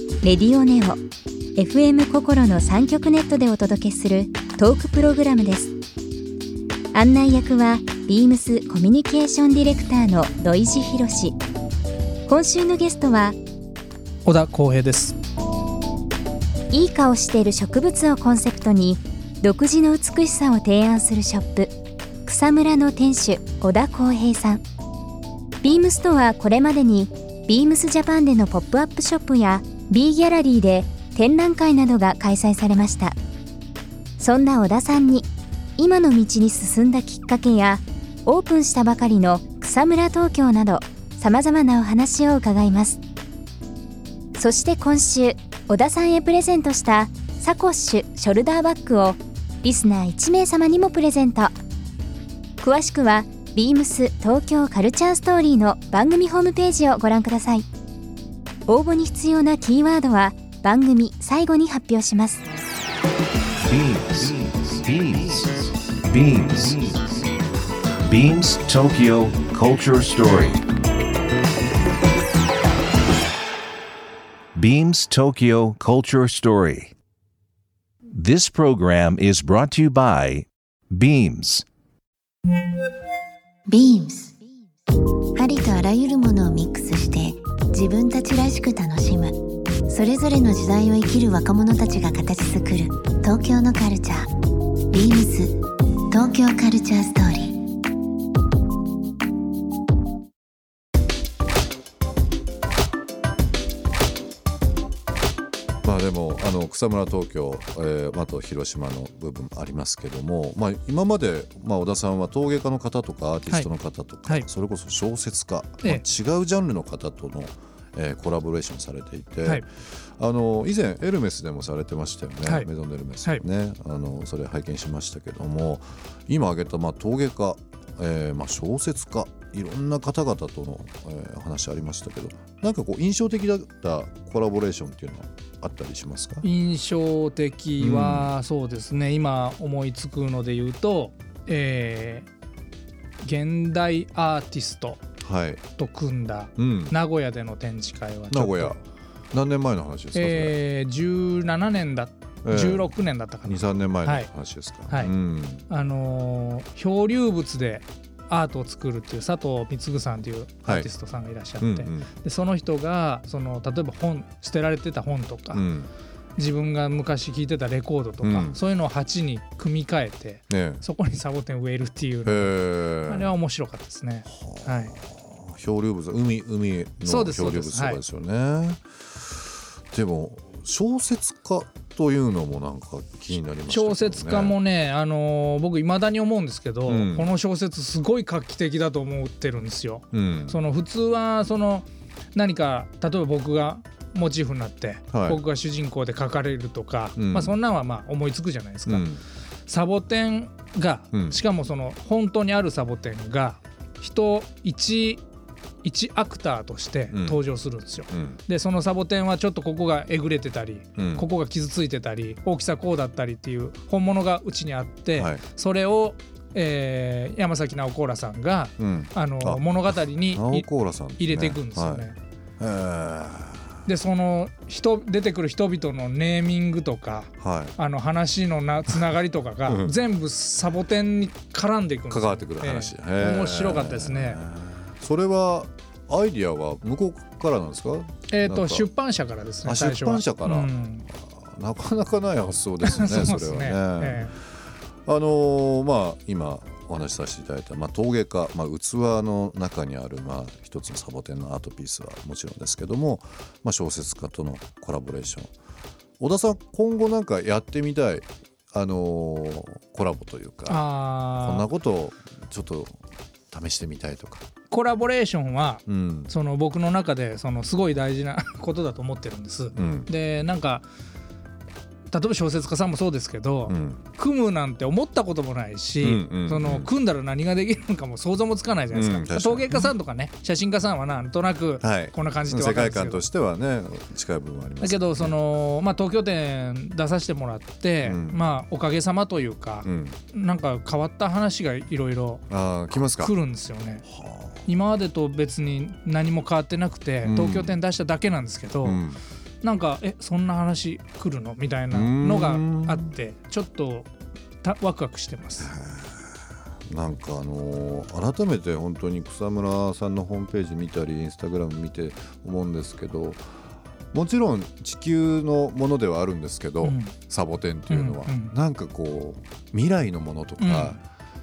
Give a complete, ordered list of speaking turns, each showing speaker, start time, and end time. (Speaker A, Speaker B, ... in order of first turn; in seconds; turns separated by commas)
Speaker A: 0.2-1.0, Speaker A: 1.6-5.7, Speaker A: 6.9-11.3, Speaker A: 12.3-13.4, Speaker B: 14.2-15.2, Speaker A: 16.7-21.7, Speaker A: 22.2-24.6, Speaker A: 25.6-33.1, Speaker A: 34.2-43.0, Speaker A: 44.3-51.5, Speaker A: 52.6-57.6, Speaker A: 58.7-62.4, Speaker C: 63.6-67.2, Speaker C: 68.0-70.6, Speaker C: 74.5-76.9, Speaker C: 78.1-81.7, Speaker D: 83.7-84.4, Speaker D: 85.3-94.3, Speaker D: 94.9-97.6, Speaker E: 105.8-136.4, Speaker B: 122.4-122.7, Speaker B: 136.4-142.3, Speaker E: 137.8-138.3, Speaker B: 143.2-145.0, Speaker E: 145.2-145.6, Speaker B: 145.8-148.8, Speaker E: 146.6-146.9, Speaker E: 148.3-148.8, Speaker E: 149.3-150.5, Speaker B: 150.1-154.3, Speaker E: 152.4-155.6, Speaker B: 154.9-155.1, Speaker B: 155.7-165.6, Speaker E: 161.6-162.1, Speaker E: 165.5-165.9, Speaker B: 166.4-174.9, Speaker E: 168.2-168.6, Speaker E: 170.5-170.8, Speaker E: 172.2-173.3, Speaker E: 174.3-178.8, Speaker B: 177.0-178.0, Speaker E: 179.9-184.5, Speaker B: 183.7-199.0, Speaker E: 186.9-187.3, Speaker E: 190.1-190.6, Speaker E: 195.1-195.4, Speaker E: 197.2-197.6, Speaker E: 198.9-199.2, Speaker B: 199.7-205.2, Speaker E: 201.1-201.4, Speaker B: 205.8-222.1, Speaker E: 207.1-207.4, Speaker E: 208.1-208.4, Speaker E: 211.0-211.2, Speaker E: 215.2-215.4, Speaker E: 218.8-222.1, Speaker E: 222.6-223.8, Speaker B: 223.8-234.4, Speaker E: 227.4-227.8, Speaker E: 229.7-230.0, Speaker E: 232.1-238.9, Speaker B: 238.3-241.1, Speaker E: 239.6-244.3, Speaker B: 242.8-244.3, Speaker E: 245.1-255.5, Speaker E: 256.2-263.0, Speaker B: 260.7-261.7, Speaker E: 263.5-264.4, Speaker B: 264.7-270.8, Speaker E: 265.9-266.3, Speaker E: 269.7-270.1, Speaker B: 272.1-283.2, Speaker E: 273.7-274.1, Speaker E: 276.0-276.9, Speaker E: 278.9-279.9, Speaker E: 281.8-285.4, Speaker B: 284.8-294.0, Speaker E: 288.1-288.4, Speaker E: 289.8-290.2, Speaker E: 292.5-293.3, Speaker E: 294.0-294.7, Speaker B: 294.7-299.0, Speaker E: 297.2-297.8, Speaker E: 298.8-299.2, Speaker B: 299.6-304.1, Speaker E: 301.9-303.1, Speaker B: 304.6-305.7, Speaker E: 305.6-306.4, Speaker E: 306.9-313.5, Speaker E: 314.1-321.0, Speaker B: 316.8-317.2, Speaker B: 317.9-318.5, Speaker B: 320.6-321.0